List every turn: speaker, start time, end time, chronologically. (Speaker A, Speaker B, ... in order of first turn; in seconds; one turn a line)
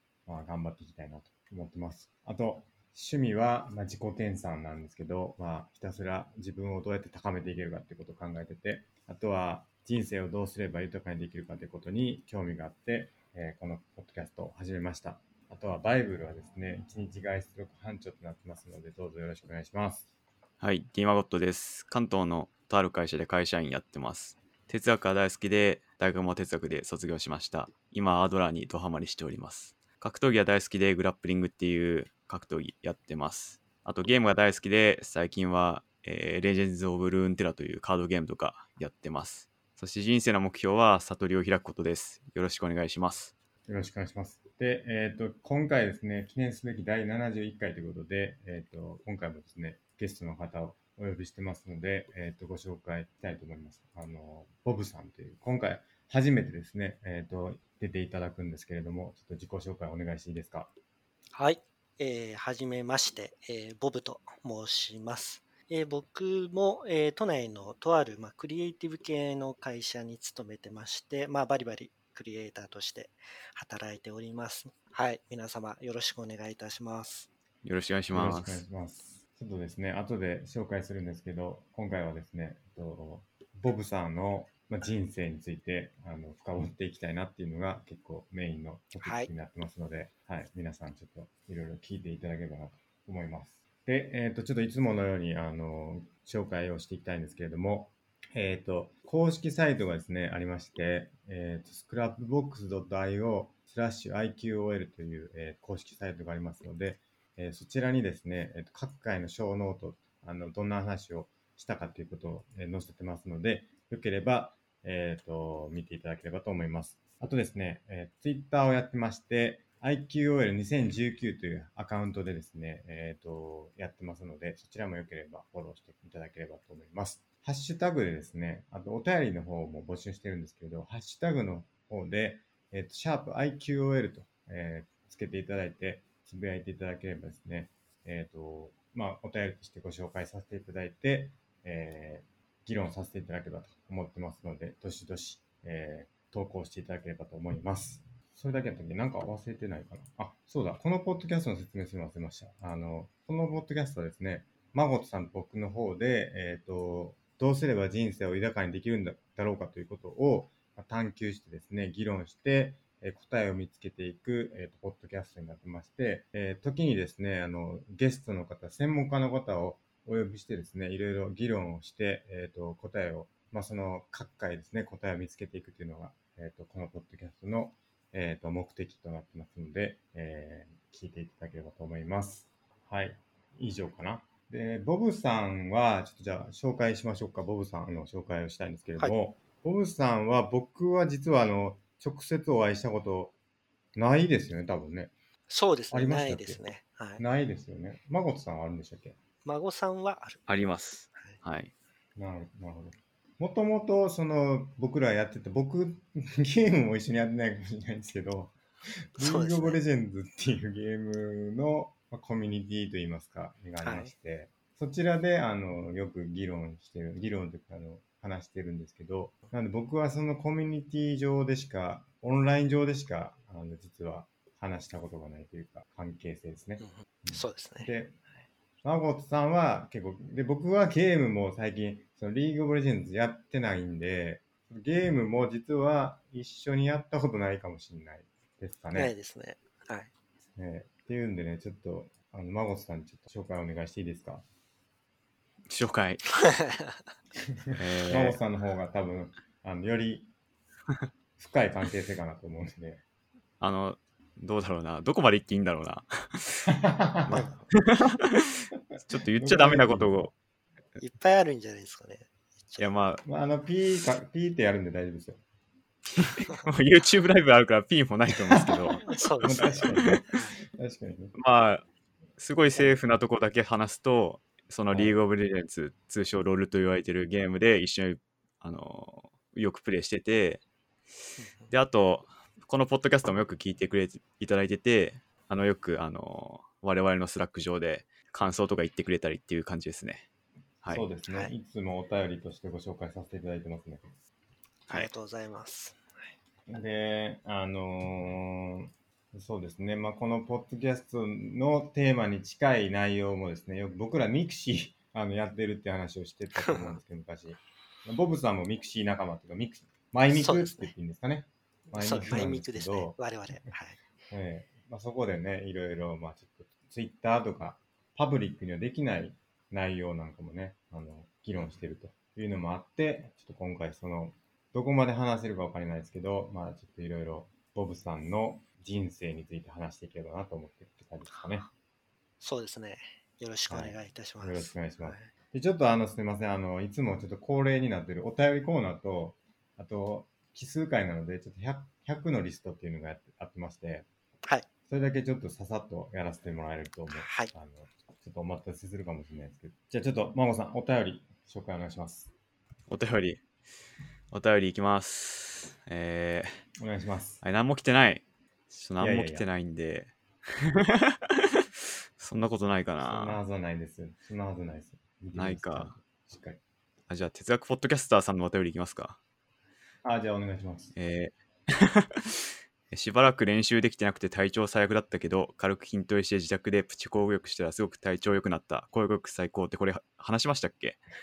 Speaker A: 0.3-20.1
Speaker B: 20.6-43.3
Speaker A: 43.7-60.7
Speaker C: 61.4-77.3
Speaker B: 77.6-78.6
Speaker A: 78.1-193.3
Speaker C: 89.0-89.3
Speaker A: 193.9-195.1
Speaker C: 195.5-197.2
Speaker A: 195.9-196.6
Speaker A: 197.2-199.2
Speaker C: 199.4-200.5
Speaker B: 200.5-201.7
Speaker A: 202.2-208.6
Speaker A: 209.2-228.2
Speaker C: 209.2-209.8
Speaker C: 213.8-214.1
Speaker C: 226.8-227.9
Speaker A: 228.8-239.1
Speaker C: 238.9-240.1
Speaker A: 240.6-244.4
Speaker B: 245.7-246.3
Speaker C: 246.3-247.0
Speaker A: 247.7-250.3
Speaker B: 247.8-248.4
Speaker A: 251.4-253.0
Speaker B: 253.6-256.6
Speaker A: 256.7-257.5
Speaker B: 257.3-258.5
Speaker C: 257.3-257.6
Speaker A: 258.9-260.3
Speaker B: 259.1-260.3
Speaker C: 261.0-263.1
Speaker B: 262.8-263.2
Speaker A: 263.2-265.4
Speaker B: 266.2-270.2
Speaker A: 268.5-271.4
Speaker C: 269.1-270.6
Speaker B: 271.4-271.8
Speaker B: 272.4-280.6
Speaker A: 274.9-275.2
Speaker C: 281.4-281.7
Speaker B: 281.7-290.3
Speaker A: 290.9-294.1
Speaker C: 294.9-296.3
Speaker A: 296.7-313.7
Speaker C: 306.7-306.9
Speaker C: 310.3-310.9
Speaker C: 311.9-314.0
Speaker A: 314.3-331.7
Speaker C: 331.4-331.7
Speaker C: 332.4-335.3
Speaker A: 333.7-344.1
Speaker A: 344.9-352.3
Speaker C: 347.1-347.5
Speaker B: 352.9-353.4
Speaker B: 354.3-356.6
Speaker A: 356.8-357.4
Speaker B: 357.4-361.7
Speaker A: 359.0-359.5
Speaker B: 362.2-363.4
Speaker A: 363.0-366.6
Speaker B: 365.4-365.9
Speaker B: 367.1-369.2
Speaker A: 370.0-370.9
Speaker B: 371.0-381.0